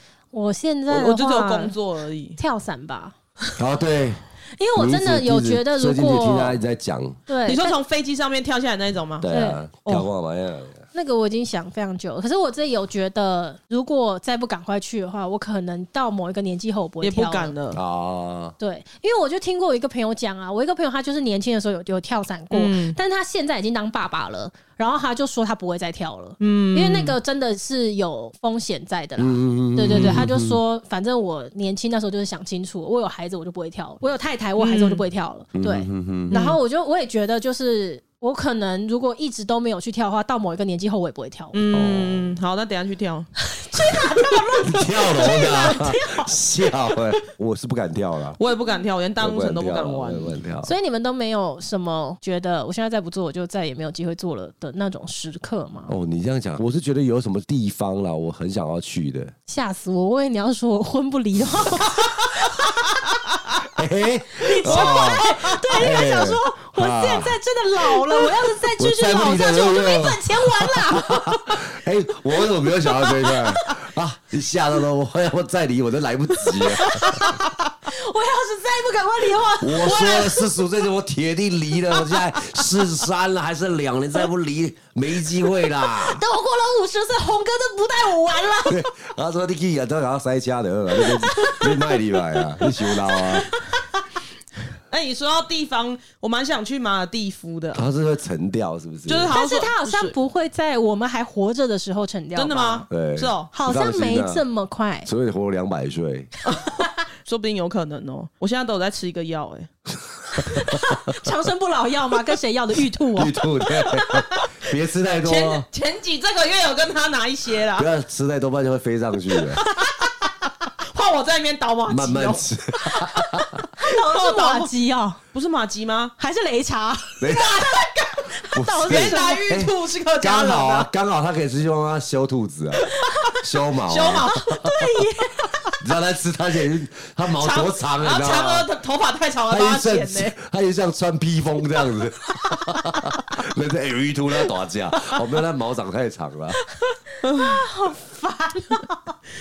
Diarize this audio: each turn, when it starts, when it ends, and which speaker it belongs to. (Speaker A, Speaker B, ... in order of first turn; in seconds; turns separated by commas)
Speaker A: 0.3-1.8, Speaker B: 0.9-2.4, Speaker A: 2.4-3.1, Speaker C: 3.6-4.2, Speaker A: 4.6-6.6, Speaker C: 4.7-7.2, Speaker A: 7.3-7.8, Speaker B: 7.5-9.3, Speaker C: 9.2-10.8, Speaker A: 9.3-9.6, Speaker A: 10.9-17.5, Speaker B: 17.0-17.8, Speaker C: 17.7-18.5, Speaker A: 18.6-41.6, Speaker B: 22.5-23.0, Speaker B: 26.4-27.2, Speaker C: 29.2-30.6, Speaker B: 29.9-30.3, Speaker B: 34.6-35.0, Speaker C: 35.5-36.4, Speaker B: 36.3-36.6, Speaker B: 41.5-43.3, Speaker C: 41.7-42.4, Speaker A: 43.4-46.4, Speaker C: 44.6-48.4, Speaker B: 48.4-50.3, Speaker C: 49.2-50.7, Speaker A: 50.6-55.9, Speaker C: 55.9-59.3, Speaker A: 59.5-63.2, Speaker C: 63.6-67.4, Speaker A: 64.3-71.6, Speaker B: 64.7-65.0, Speaker C: 68.8-77.3, Speaker A: 72.9-73.7, Speaker A: 76.6-80.5, Speaker C: 79.6-86.2, Speaker A: 85.8-88.9, Speaker C: 88.7-93.5, Speaker A: 91.0-93.6, Speaker B: 94.9-97.8, Speaker C: 97.7-99.3, Speaker B: 99.1-100.1, Speaker A: 99.3-102.9, Speaker B: 102.3-103.5, Speaker C: 102.9-104.4, Speaker A: 103.5-105.1, Speaker C: 105.0-106.3, Speaker B: 106.5-109.7, Speaker A: 106.5-106.9, Speaker C: 110.4-110.8, Speaker A: 110.4-113.4, Speaker C: 113.1-115.7, Speaker B: 115.2-117.9, Speaker C: 117.8-119.6, Speaker B: 119.3-120.0, Speaker A: 119.8-120.1, Speaker B: 120.9-122.4, Speaker C: 121.9-123.6, Speaker A: 123.8-125.2, Speaker B: 123.8-124.7, Speaker B: 125.3-126.1, Speaker A: 126.2-129.4, Speaker C: 127.2-127.7, Speaker B: 127.3-128.2, Speaker C: 128.5-134.8, Speaker B: 128.9-130.9, Speaker A: 133.0-133.4, Speaker B: 133.8-134.4, Speaker A: 134.3-135.8, Speaker C: 135.8-138.7, Speaker B: 137.4-140.3, Speaker C: 139.5-146.6, Speaker A: 146.8-149.1, Speaker B: 147.2-147.6